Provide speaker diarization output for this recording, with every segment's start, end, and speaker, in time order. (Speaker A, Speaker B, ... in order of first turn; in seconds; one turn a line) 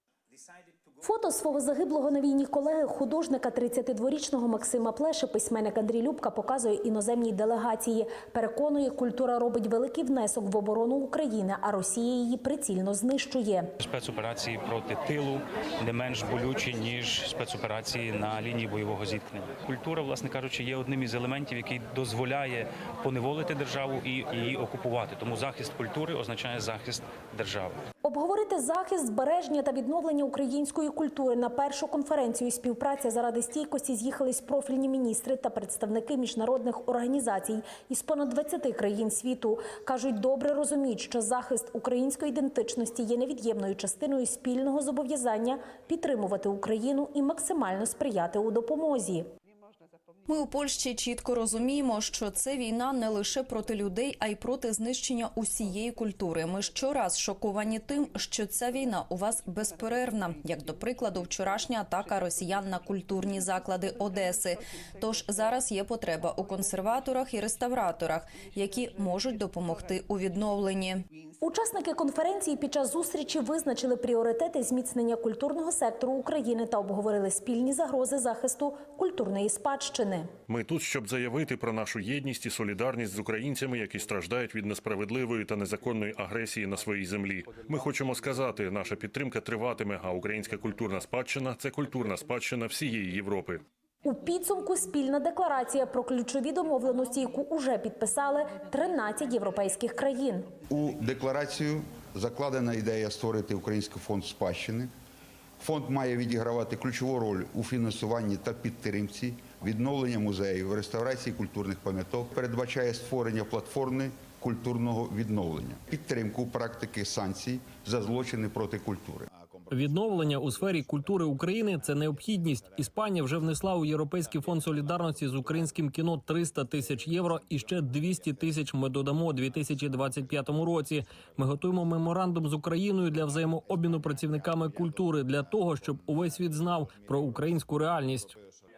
Speaker A: 1.0-13.7
Speaker B: 13.8-27.8
Speaker A: 28.0-49.2
Speaker C: 50.3-71.0
Speaker A: 71.4-80.3
Speaker D: 80.5-93.6
Speaker A: 94.0-100.5
Speaker E: 100.7-104.9
Speaker E: 105.6-119.3
Speaker F: 119.7-138.3